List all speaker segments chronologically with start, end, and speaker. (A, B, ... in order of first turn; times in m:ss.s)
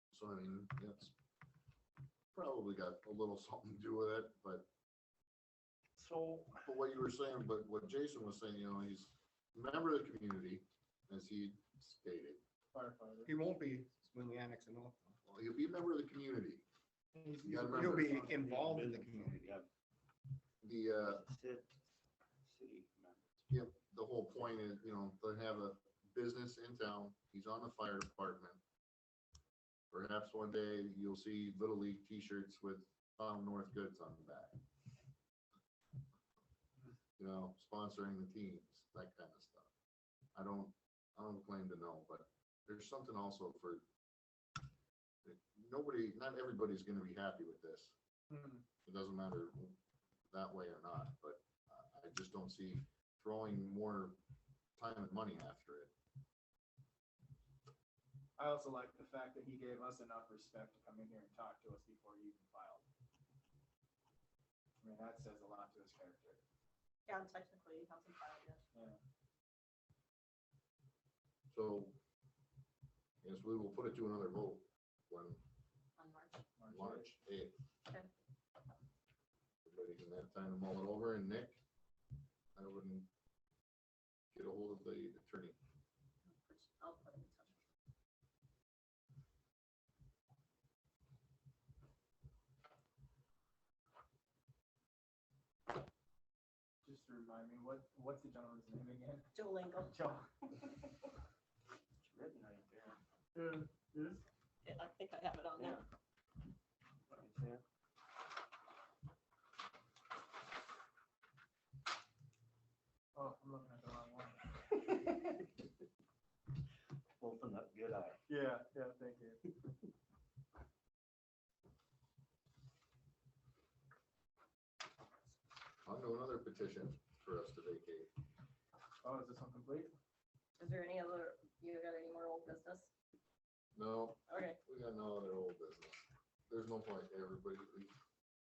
0:00.1-0:01.1 A
0:02.3-0:04.7 A
0:06.0-0:06.6 B
0:06.6-0:12.4 A
0:12.7-0:13.3 C
0:13.3-0:15.1 D
0:15.2-0:16.6 A
0:17.2-0:18.5 C
0:17.4-0:19.4 D
0:17.4-0:18.2 A
0:18.1-0:19.7 B
0:20.6-0:21.2 A
0:21.0-0:21.7 B
0:22.4-0:23.4 B
0:23.5-0:28.6 A
0:29.9-0:34.6 A
0:37.2-0:39.7 A
0:40.4-0:43.8 A
0:45.2-0:47.9 A
0:48.3-0:48.6 C
0:48.9-0:49.8 A
0:50.3-0:54.2 A
0:54.8-0:55.9 A
0:58.4-1:02.8 C
1:04.8-1:06.4 C
1:07.1-1:08.6 E
1:11.5-1:12.0 A
1:13.2-1:15.4 A
1:16.0-1:16.4 E
1:16.6-1:17.1 C
1:16.7-1:17.6 A
1:19.6-1:21.6 A
1:22.6-1:23.1 A
1:24.3-1:25.6 A
1:26.2-1:27.6 E
1:36.8-1:39.3 C
1:39.3-1:40.1 E
1:39.9-1:40.2 C
1:42.0-1:43.0 B
1:43.4-1:44.2 C
1:44.6-1:45.8 E
1:47.1-1:47.6 B
1:53.2-1:54.5 C
1:57.2-1:58.2 B
1:58.3-1:59.5 C
2:05.8-2:08.1 A
2:09.0-2:10.0 C
2:10.6-2:12.9 E
2:13.8-2:17.9 A
2:14.3-2:14.6 E